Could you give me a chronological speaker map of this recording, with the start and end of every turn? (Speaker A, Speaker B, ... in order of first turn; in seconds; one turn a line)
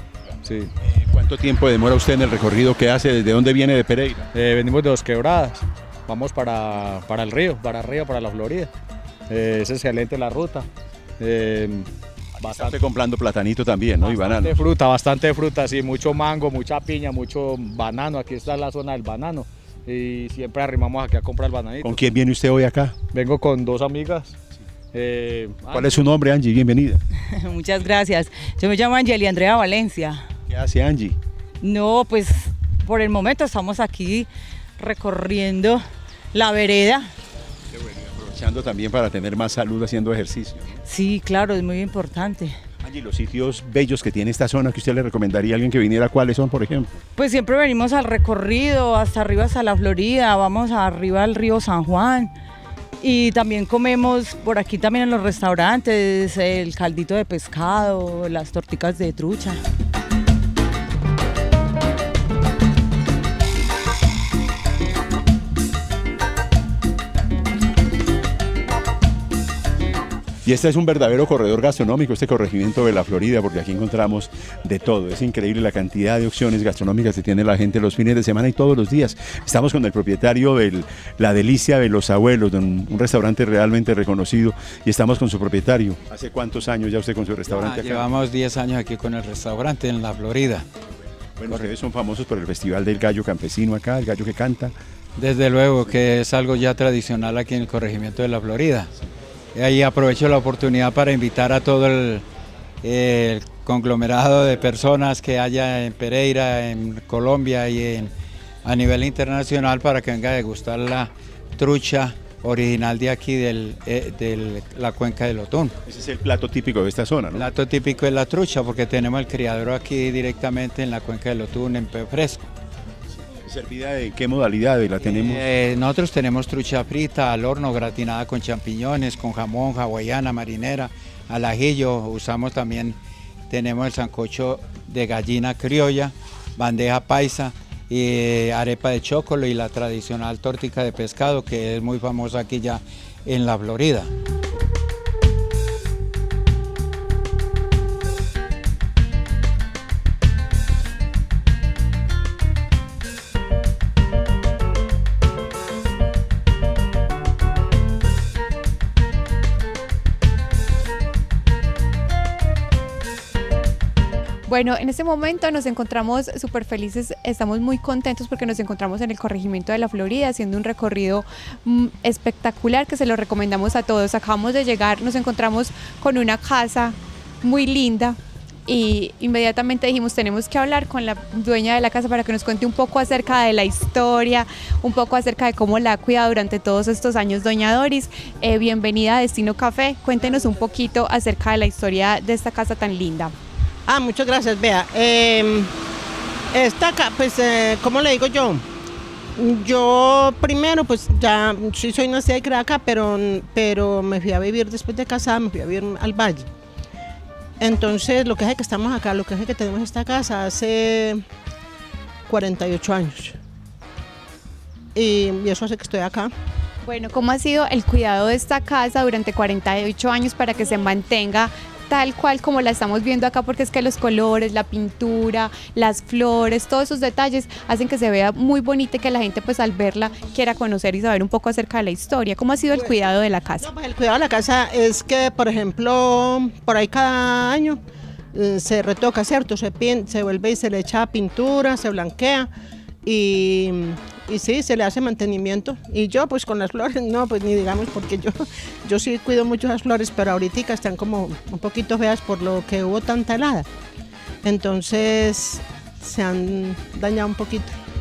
Speaker A: 0.8-4.3
Speaker B: 4.3-8.7
Speaker B: 9.3-10.7
Speaker B: 11.2-11.9
Speaker B: 12.4-12.7
Speaker A: 12.4-14.6
Speaker B: 14.1-22.0
Speaker A: 21.8-22.9
Speaker B: 23.1-24.3
Speaker B: 24.9-26.0
Speaker A: 25.7-27.0
Speaker C: 27.4-30.3
Speaker A: 30.5-31.2
Speaker C: 31.6-35.8
Speaker C: 36.3-37.1
Speaker A: 37.7-40.8
Speaker C: 40.9-42.6
Speaker A: 42.8-47.0
Speaker C: 47.2-52.3
Speaker C: 53.0-59.6
Speaker A: 70.5-88.1
Speaker D: 87.5-90.7
Speaker A: 91.4-94.7
Speaker D: 95.2-98.9
Speaker D: 99.5-102.2
Speaker D: 102.8-108.1
Speaker D: 108.6-115.8
Speaker A: 115.8-117.5
Speaker D: 117.3-122.5
Speaker A: 123.5-125.5
Speaker D: 125.0-133.0
Speaker D: 133.5-144.1
Speaker E: 164.5-193.3
Speaker F: 193.9-195.7
Speaker F: 196.5-198.6
Speaker F: 199.4-206.5
Speaker F: 207.6-211.2
Speaker F: 212.3-213.4
Speaker F: 214.9-216.3
Speaker E: 216.8-233.7
Speaker F: 232.7-237.8
Speaker F: 238.3-242.5
Speaker F: 243.0-253.7
Speaker F: 254.4-257.8